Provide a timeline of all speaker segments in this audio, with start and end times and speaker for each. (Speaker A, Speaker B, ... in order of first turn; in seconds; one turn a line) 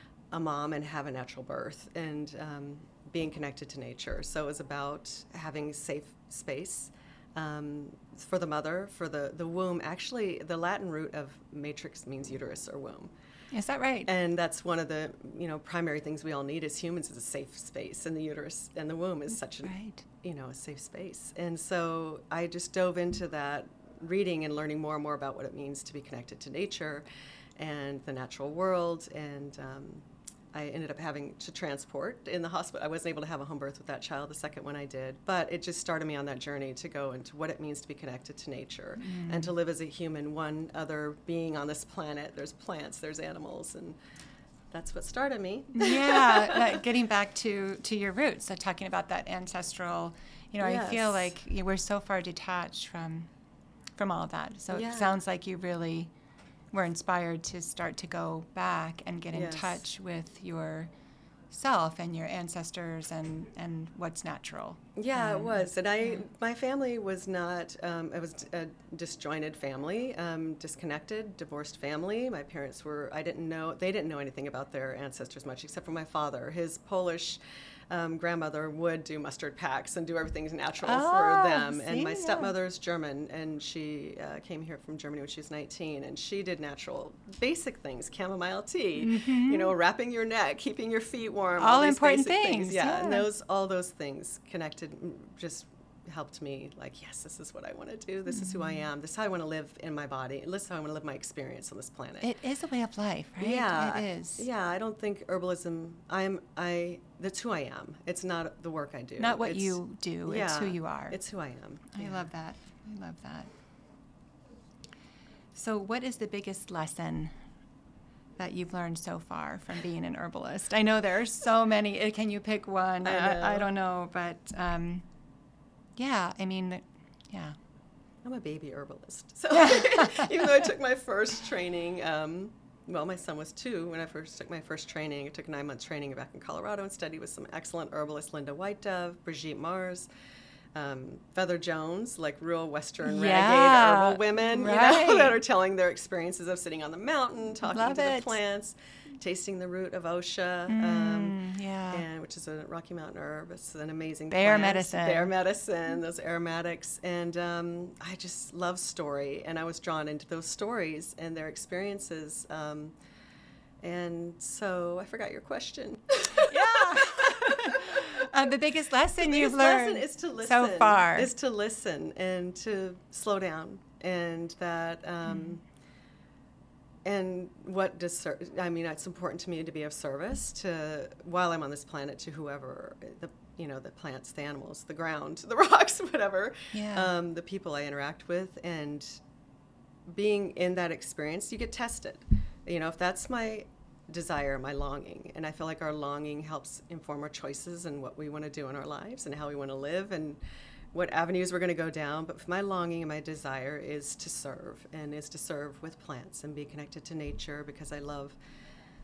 Speaker A: 0.3-13.1
Speaker B: 13.5-14.1
Speaker A: 14.1-27.0
Speaker B: 19.6-20.0
Speaker A: 27.6-44.0
Speaker B: 39.0-39.5
Speaker A: 44.7-46.8
Speaker B: 45.7-53.3
Speaker A: 50.6-51.3
Speaker B: 54.0-56.1
Speaker A: 54.7-55.2
Speaker B: 56.7-60.9
Speaker A: 59.3-59.8
Speaker B: 61.5-66.2
Speaker A: 65.0-77.4
Speaker A: 77.9-102.3
Speaker B: 80.8-82.5
Speaker B: 89.0-89.7
Speaker B: 91.6-93.3
Speaker B: 98.3-98.8
Speaker B: 102.2-104.4
Speaker A: 103.4-112.3
Speaker B: 109.2-111.2
Speaker B: 111.9-113.5
Speaker B: 115.5-117.3
Speaker B: 118.4-125.0
Speaker A: 123.0-123.7
Speaker B: 126.0-127.5
Speaker A: 128.2-140.1
Speaker B: 129.5-130.7
Speaker A: 140.7-151.4
Speaker B: 143.0-145.4
Speaker B: 147.7-148.3
Speaker B: 150.7-152.0
Speaker A: 151.9-162.9
Speaker B: 154.3-155.3
Speaker A: 163.8-168.3
Speaker B: 166.4-171.3
Speaker A: 169.2-175.6
Speaker A: 177.0-189.2
Speaker B: 186.7-187.1
Speaker A: 190.1-200.4
Speaker A: 200.9-208.4